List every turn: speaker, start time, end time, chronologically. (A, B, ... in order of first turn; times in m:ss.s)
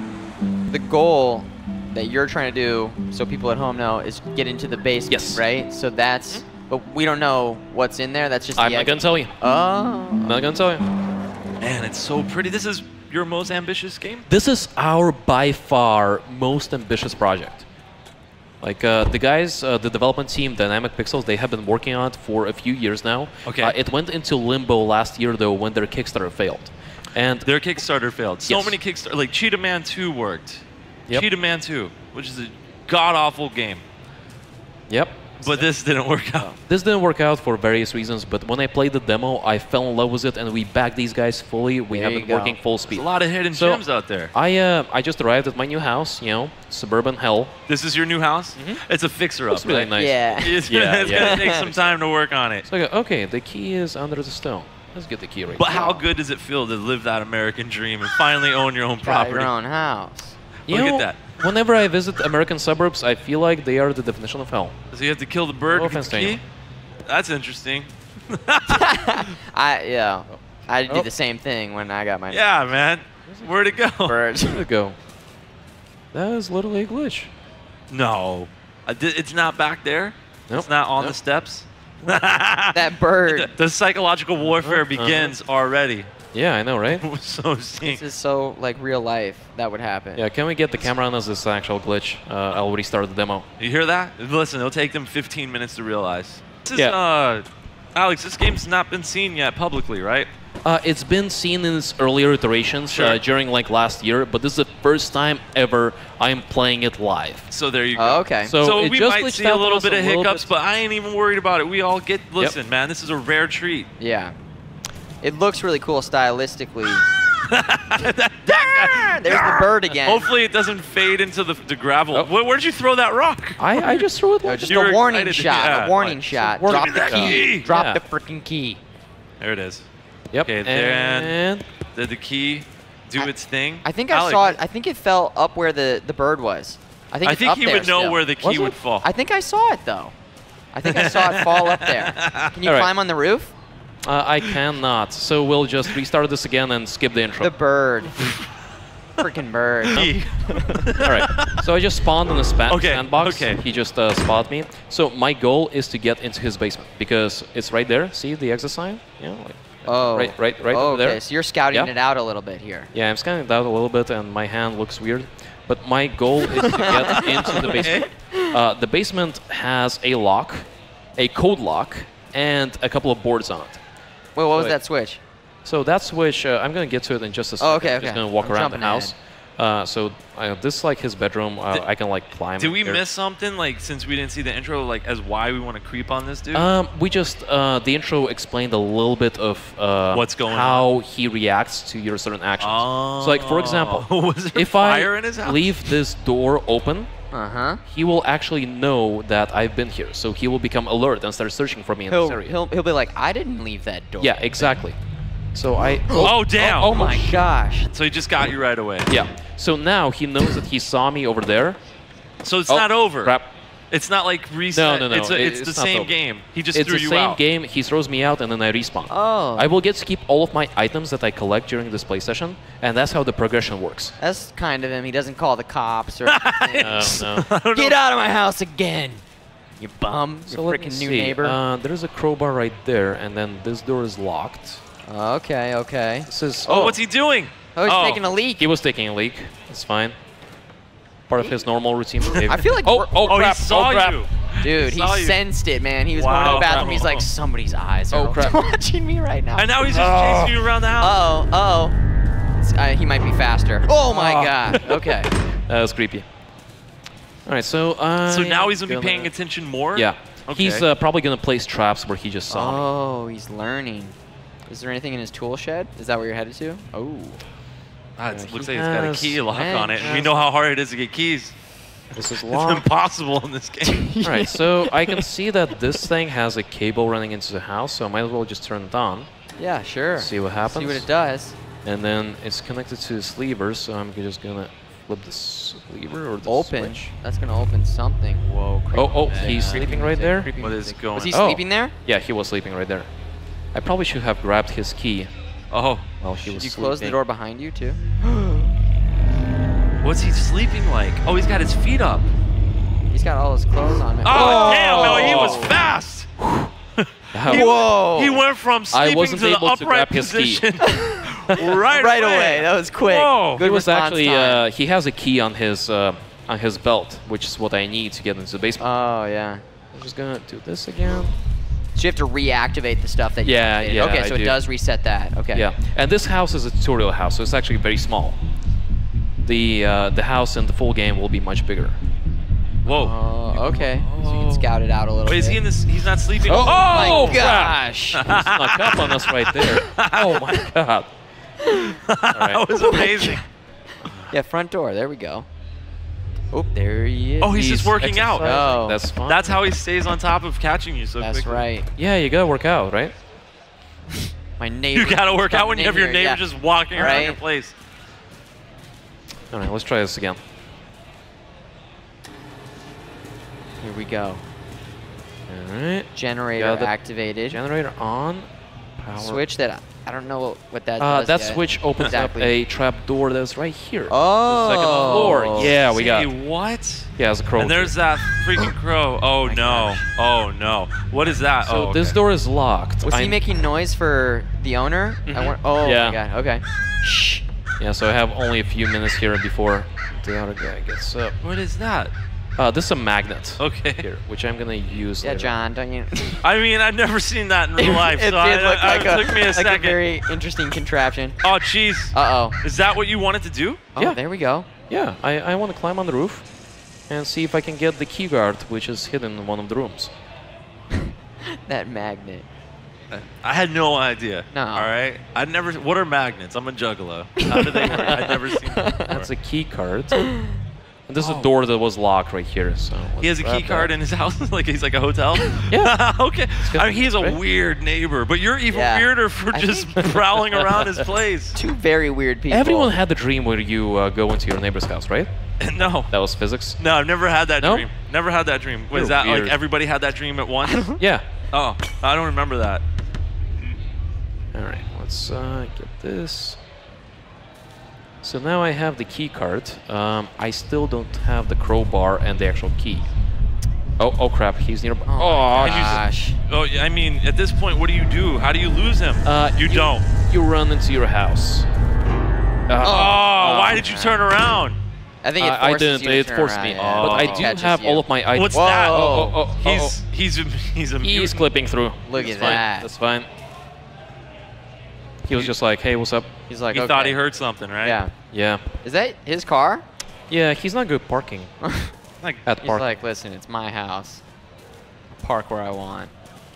0:00.7-0:10.4 A
0:05.1-0:05.4 B
0:08.6-0:09.4 B
0:10.2-0:10.8 B
0:11.6-0:14.3 C
0:14.3-0:17.6 B
0:18.6-0:27.5 B
0:23.4-0:23.8 C
0:27.4-0:33.8 C
0:28.5-0:28.8 B
0:34.9-0:35.3 B
0:35.4-0:36.5 C
0:36.7-0:47.5 B
0:41.9-0:42.6 A
0:42.9-0:44.3 C
0:47.7-0:52.6 C
0:48.6-0:48.8 B
0:49.5-0:51.5 B
0:49.9-0:51.9 A
0:52.6-0:56.0 B
0:55.5-0:59.5 C
0:55.7-0:56.0 A
0:59.0-1:00.3 A
1:00.7-1:01.2 C
1:00.7-1:04.7 B
1:04.9-1:06.4 C
1:05.7-1:06.4 B
1:07.0-1:09.3 C
1:08.7-1:12.5 A
1:12.3-1:14.2 C
1:14.0-1:14.6 A
1:14.4-1:15.0 B
1:16.1-1:17.3 B
1:17.9-1:26.1 C
1:20.5-1:21.2 B
1:22.7-1:23.5 A
1:24.4-1:25.3 B
1:26.3-1:27.0 B
1:26.9-1:28.0 C
1:27.8-1:30.2 A
1:30.2-1:33.5 B
1:33.6-1:40.3 C
1:40.6-1:47.5 B
1:42.9-1:43.2 C
1:47.5-1:53.9 C
1:48.0-1:48.5 A
1:48.4-1:50.5 B
1:54.0-1:54.3 A
1:55.2-1:57.1 A
1:57.5-2:04.0 C
1:58.4-2:00.3 A
2:03.6-2:04.8 B
2:04.4-2:08.8 A
2:04.7-2:07.6 C
2:06.3-2:08.0 B
2:09.4-2:09.8 C
2:10.3-2:11.6 B
2:10.4-2:11.3 C
2:11.9-2:14.6 C
2:13.8-2:18.2 A
2:17.2-2:19.0 C
2:18.4-2:18.8 B
2:19.0-2:20.1 A
2:20.7-2:23.5 A
2:20.8-2:22.5 C
2:22.6-2:22.9 B
2:24.0-2:27.5 B
2:27.4-2:28.3 A
2:29.2-2:30.9 A
2:29.9-2:31.6 C
2:31.0-2:41.9 B
2:32.7-2:33.6 C
2:39.9-2:42.9 A
2:42.9-2:53.8 B
2:46.5-2:48.6 A
2:47.2-2:48.1 C
2:54.4-2:55.2 A
2:55.6-3:03.0 B
2:57.6-2:59.1 A
3:02.6-3:06.7 C
3:06.5-3:17.1 B
3:10.1-3:10.8 C
3:12.6-3:15.9 C
3:17.3-3:17.8 A
3:17.9-3:22.6 B
3:22.1-3:24.8 A
3:24.2-3:25.0 B
3:25.5-3:27.4 B
3:26.1-3:27.9 A
3:26.2-3:26.9 C
3:27.9-3:29.1 C
3:29.1-3:31.8 B
3:32.4-3:33.3 C
3:32.7-3:33.5 B
3:33.9-3:37.4 C
3:34.7-3:36.1 B
3:36.7-3:44.1 B
3:39.1-3:39.7 A
3:44.2-3:49.2 A
3:46.2-3:48.0 C
3:46.8-3:47.5 B
3:49.8-3:51.6 A
3:50.5-3:54.8 B
3:55.0-3:57.0 A
3:56.3-3:56.9 B
3:56.7-3:58.2 C
3:57.7-3:58.6 A
3:58.6-4:00.2 B
4:01.3-4:04.2 B
4:02.3-4:03.2 A
4:03.2-4:05.4 C
4:04.6-4:09.7 A
4:06.1-4:07.2 C
4:06.4-4:07.0 B
4:08.1-4:08.6 B
4:09.6-4:11.2 C
4:09.9-4:10.6 B
4:11.0-4:12.0 A
4:12.6-4:15.3 A
4:14.1-4:15.1 B
4:15.7-4:16.2 B
4:17.4-4:19.3 B
4:18.2-4:20.8 C
4:19.9-4:22.9 B
4:22.5-4:24.1 A
4:24.7-4:27.4 A
4:28.2-4:31.5 C
4:28.3-4:29.4 B
4:29.5-4:30.4 A
4:32.1-4:32.8 B
4:32.4-4:34.1 C
4:33.8-4:35.2 A
4:34.2-4:39.3 B
4:39.6-4:41.6 A
4:40.2-4:41.1 B
4:41.8-4:47.1 B
4:46.4-4:51.9 A
4:48.9-4:50.5 B
4:49.3-4:49.8 C
4:50.6-4:51.4 C
4:51.3-4:53.1 B
4:53.7-4:55.3 B
4:55.7-4:56.1 C
4:56.2-4:57.2 B
4:56.4-4:58.7 A
5:00.0-5:02.3 C
5:03.1-5:05.8 A
5:04.2-5:06.3 C
5:04.3-5:05.7 B
5:06.4-5:06.7 B
5:07.0-5:13.6 C
5:07.3-5:07.7 B
5:07.4-5:08.4 A
5:08.9-5:10.6 B
5:10.8-5:14.6 A
5:13.6-5:18.8 B
5:18.8-5:19.6 A
5:19.9-5:21.3 B
5:22.0-5:25.7 A
5:23.4-5:24.6 B
5:25.5-5:28.4 B
5:29.4-5:32.0 B
5:32.8-5:34.7 C
5:32.8-5:35.6 A
5:35.2-5:37.5 C
5:36.5-5:41.1 B
5:36.5-5:38.3 A
5:38.1-5:40.6 C
5:41.7-5:42.0 A
5:41.8-5:43.4 C
5:42.3-5:42.6 B
5:42.7-5:43.4 A
5:44.3-5:45.4 A
5:46.5-5:47.6 A
5:47.4-5:48.6 C
5:47.5-5:49.6 B
5:48.4-5:49.0 A
5:49.2-5:51.6 C
5:51.2-5:51.9 A
5:52.0-5:53.1 B
5:54.6-5:57.4 A
5:54.9-5:57.7 C
5:59.5-6:00.4 B
6:03.8-6:04.4 A
6:05.5-6:06.9 B
6:06.1-6:07.6 A
6:07.5-6:08.5 B
6:09.0-6:09.4 B
6:09.2-6:12.6 A
6:11.0-6:16.3 B
6:14.1-6:15.7 A
6:14.7-6:22.2 C
6:17.2-6:17.9 B
6:19.4-6:20.1 A
6:21.6-6:23.4 B
6:23.0-6:27.4 A
6:25.2-6:26.2 B
6:27.8-6:31.4 B
6:31.4-6:32.1 C
6:32.6-6:35.5 B
6:33.6-6:34.0 C
6:35.2-6:36.4 A
6:36.4-6:40.0 C
6:37.8-6:41.4 A
6:41.4-6:43.8 C
6:42.1-6:42.6 A
6:43.9-6:44.7 A
6:44.9-6:46.4 B
6:47.1-6:50.1 B
6:51.6-6:52.5 A
6:53.1-6:59.3 C
6:54.5-6:54.9 A
6:57.4-6:59.1 A
6:57.9-6:58.3 B
6:59.1-7:00.3 B
7:01.1-7:03.9 B
7:01.2-7:01.5 C
7:03.2-7:11.6 C
7:05.7-7:06.0 B
7:06.6-7:07.4 B
7:08.7-7:10.1 A
7:10.0-7:11.0 B
7:11.6-7:12.9 A
7:12.5-7:15.3 B
7:15.6-7:16.1 C
7:16.1-7:16.8 B
7:16.8-7:20.9 C
7:17.6-7:17.9 B
7:18.9-7:19.6 B
7:20.7-7:21.0 A
7:21.0-7:21.2 B
7:21.5-7:22.8 C
7:24.5-7:26.6 B
7:28.2-7:33.0 B
7:34.0-7:36.0 B
7:35.1-7:36.4 A
7:35.6-7:40.0 C
7:39.2-7:41.7 B
7:42.7-7:43.7 B
7:42.8-7:44.3 A
7:42.8-7:44.8 C
7:45.2-7:49.4 A
7:45.4-7:50.0 B
7:46.8-7:47.5 C
7:48.3-7:51.5 C
7:51.0-7:53.3 B
7:52.0-7:52.9 A
7:55.3-7:56.3 B
7:56.5-7:57.2 A
7:56.7-7:58.0 C
7:57.8-7:58.1 A
7:58.3-7:58.6 B
7:58.8-7:59.8 A
8:00.3-8:01.5 B
8:01.6-8:01.9 A
8:02.4-8:02.9 B
8:02.6-8:04.2 A
8:05.2-8:06.1 A